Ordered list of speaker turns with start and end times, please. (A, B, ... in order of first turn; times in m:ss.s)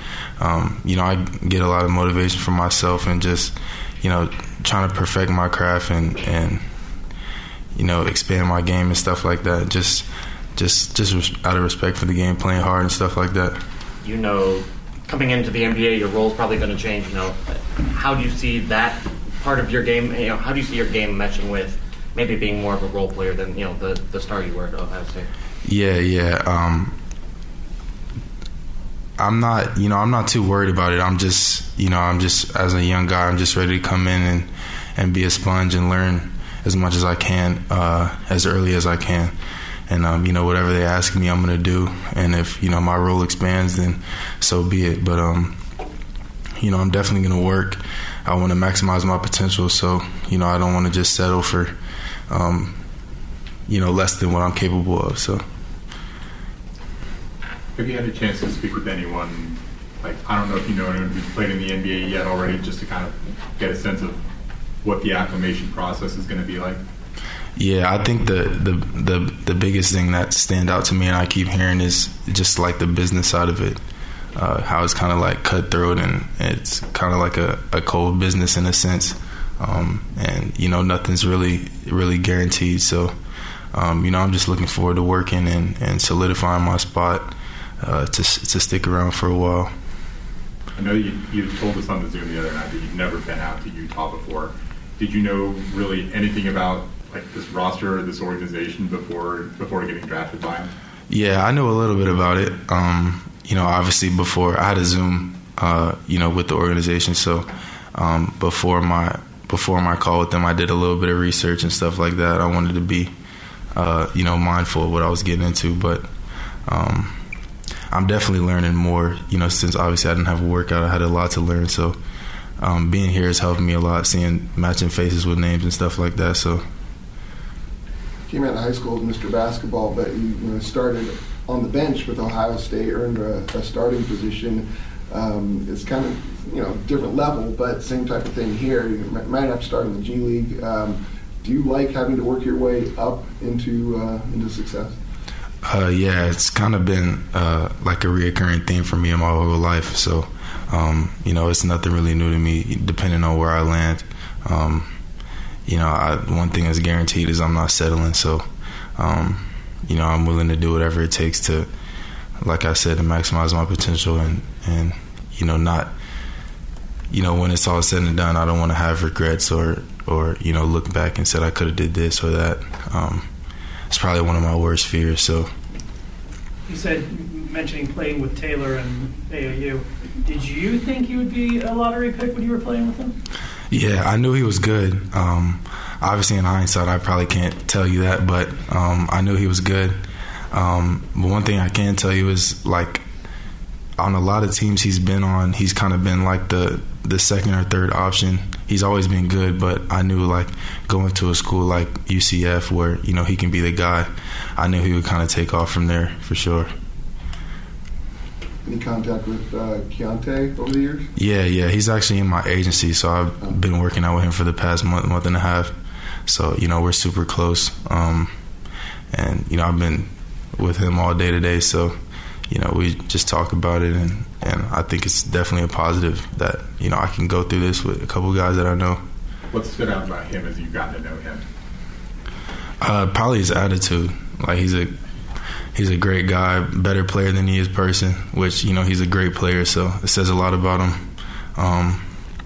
0:00.4-0:06.6 A
0:07.7-0:13.6 A
0:14.0-0:25.3 B
0:25.6-0:27.0 A
0:29.2-0:39.3 A
0:39.9-0:45.6 A
0:46.6-0:51.7 A
0:52.3-0:52.8 A
0:53.7-0:55.4 A
0:57.8-1:04.2 C
1:04.8-1:06.8 C
1:07.6-1:13.8 A
1:14.3-1:23.1 A
1:23.7-1:29.7 A
1:30.7-1:40.7 C
1:41.1-1:53.1 A
1:53.7-1:56.0 A
1:56.7-1:57.2 A
1:57.9-2:02.0 A
2:02.6-2:06.6 A
2:08.3-2:25.0 D
2:25.6-2:34.9 A
2:35.6-2:41.7 A
2:42.4-2:45.9 A
2:47.1-2:53.3 A
2:53.9-2:55.5 A
2:56.7-3:03.1 E
3:03.7-3:10.0 A
3:10.5-3:13.0 A
3:14.0-3:26.7 A
3:28.6-3:31.1 D
3:31.2-3:35.7 A
3:36.3-3:38.3 A
3:39.1-3:41.9 A
3:42.5-3:49.0 A
3:49.5-3:51.4 C
3:52.8-3:54.9 A
3:55.7-4:02.0 A